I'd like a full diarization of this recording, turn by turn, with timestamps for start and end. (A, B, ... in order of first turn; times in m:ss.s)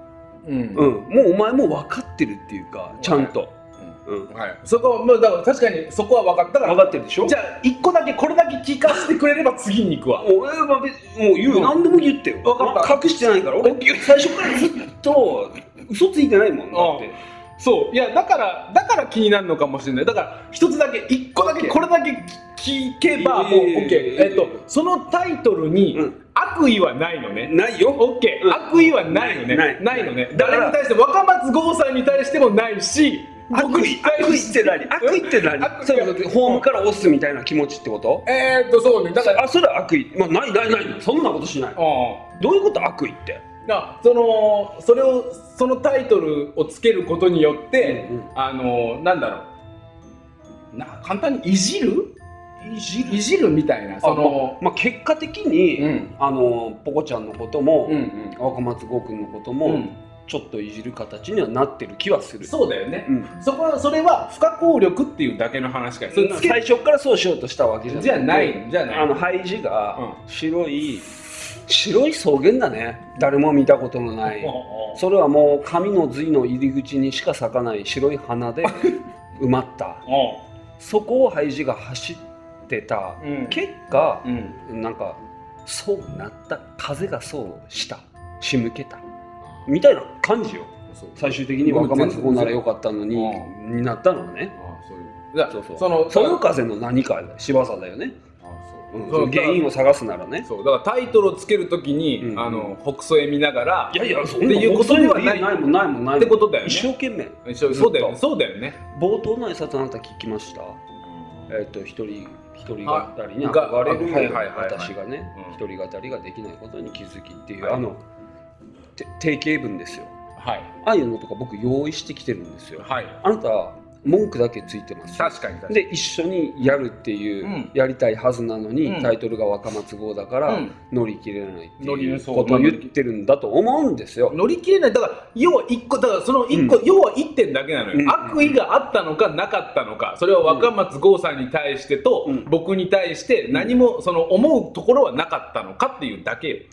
0:00.4-0:00.9 A
0:00.8-0:03.5 B
0:03.0-0:10.3 A
0:04.1-0:04.3 B
0:06.6-0:07.4 B
0:10.2-0:17.2 B
0:11.5-0:11.8 A
0:12.4-0:13.0 A
0:13.6-0:14.7 A
0:16.7-0:36.6 A
0:21.4-0:21.8 B
0:23.1-0:24.6 B
0:25.9-0:26.2 B
0:27.4-0:30.8 B
0:33.5-0:38.3 B
0:38.3-0:39.5 A
0:39.1-0:41.8 B
0:41.8-0:42.3 A
0:42.4-0:43.4 B
0:43.7-0:49.5 A
0:47.8-0:48.3 B
0:50.7-0:54.6 A
0:54.0-1:02.5 B
0:55.8-0:56.1 A
0:57.9-0:58.4 A
0:59.6-1:00.0 A
1:02.4-1:06.6 A
1:03.1-1:03.3 B
1:06.1-1:20.1 B
1:07.9-1:09.2 A
1:14.3-1:15.0 A
1:18.7-1:19.0 A
1:20.1-1:20.4 A
1:20.8-1:29.0 B
1:23.2-1:23.6 A
1:24.3-1:24.5 A
1:29.7-1:34.6 B
1:30.9-1:32.6 A
1:33.1-1:33.5 A
1:34.6-1:36.4 A
1:35.5-1:38.2 B
1:38.4-1:39.7 A
1:38.9-1:40.5 B
1:40.4-1:45.6 A
1:42.2-1:42.8 B
1:43.9-1:48.2 B
1:46.2-1:46.9 A
1:47.4-1:48.8 A
1:48.9-1:50.8 B
1:51.5-1:58.0 B
1:52.8-1:55.6 A
1:57.6-1:57.9 A
1:59.0-2:00.1 B
2:00.4-2:00.7 A
2:00.8-2:14.4 B
2:02.8-2:03.2 A
2:05.2-2:05.8 A
2:07.4-2:07.7 A
2:08.8-2:09.1 A
2:10.5-2:10.7 A
2:11.8-2:12.9 A
2:14.3-2:26.6 A
2:16.5-2:16.8 B
2:17.9-2:18.6 B
2:20.5-2:20.7 B
2:23.5-2:23.7 B